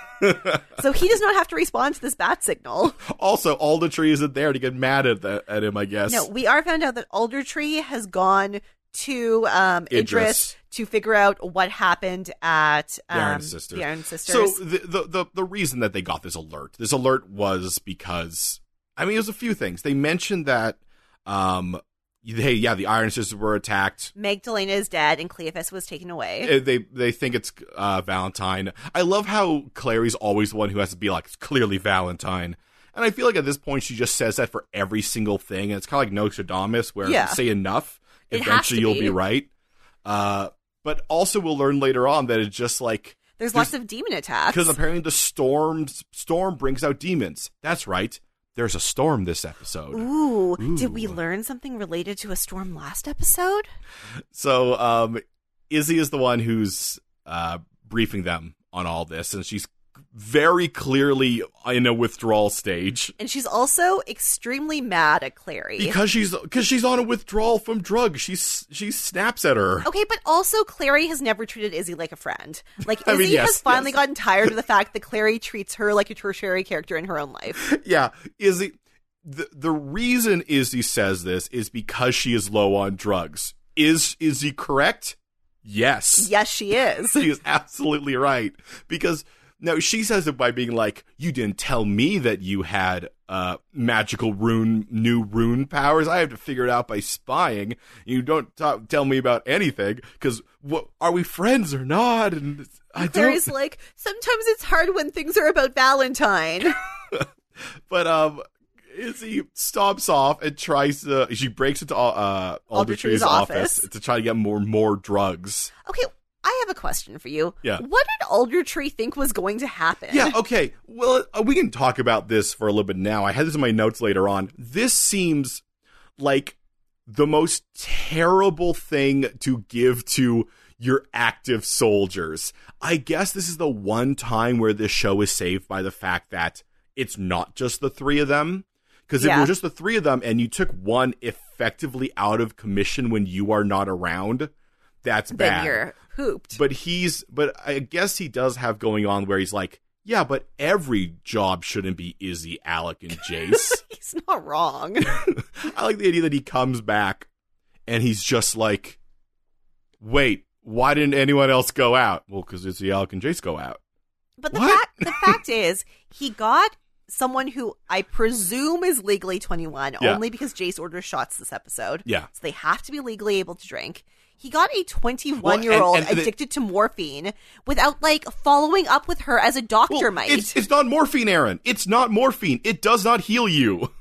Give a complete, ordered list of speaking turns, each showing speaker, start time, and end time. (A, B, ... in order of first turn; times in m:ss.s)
0:00.2-0:00.6 A
0:00.7-0:03.0 B
0:03.0-0:06.3 A
0:06.1-0:14.6 B
0:09.9-0:10.5 A
0:13.1-0:24.1 A
0:24.2-0:26.6 B
0:26.4-0:39.5 A
0:37.0-0:37.4 B
0:38.3-0:39.2 B
0:40.0-0:43.7 A
0:43.4-0:44.8 B
0:44.5-0:51.2 A
0:49.9-0:53.7 B
0:54.3-1:03.2 A
1:03.2-1:06.0 B
1:05.8-1:09.9 A
1:09.8-1:17.6 B
1:13.0-1:14.0 A
1:17.6-1:26.3 A
1:26.2-1:27.3 B
1:27.2-1:43.5 A
1:43.0-1:46.8 B
1:47.1-1:55.7 A
1:52.7-1:53.9 B
1:55.8-2:00.4 B
2:00.1-2:05.6 A
2:06.2-2:24.5 A
2:19.2-2:19.5 B
2:25.0-2:25.8 A
2:25.3-2:26.6 B
2:26.5-2:33.8 A
2:33.2-2:35.1 B
2:35.1-2:37.3 A
2:37.9-2:39.0 A
2:40.0-2:43.8 A
2:44.4-3:00.6 B
2:44.5-2:45.4 A
2:55.4-2:56.3 A
2:59.9-3:03.9 A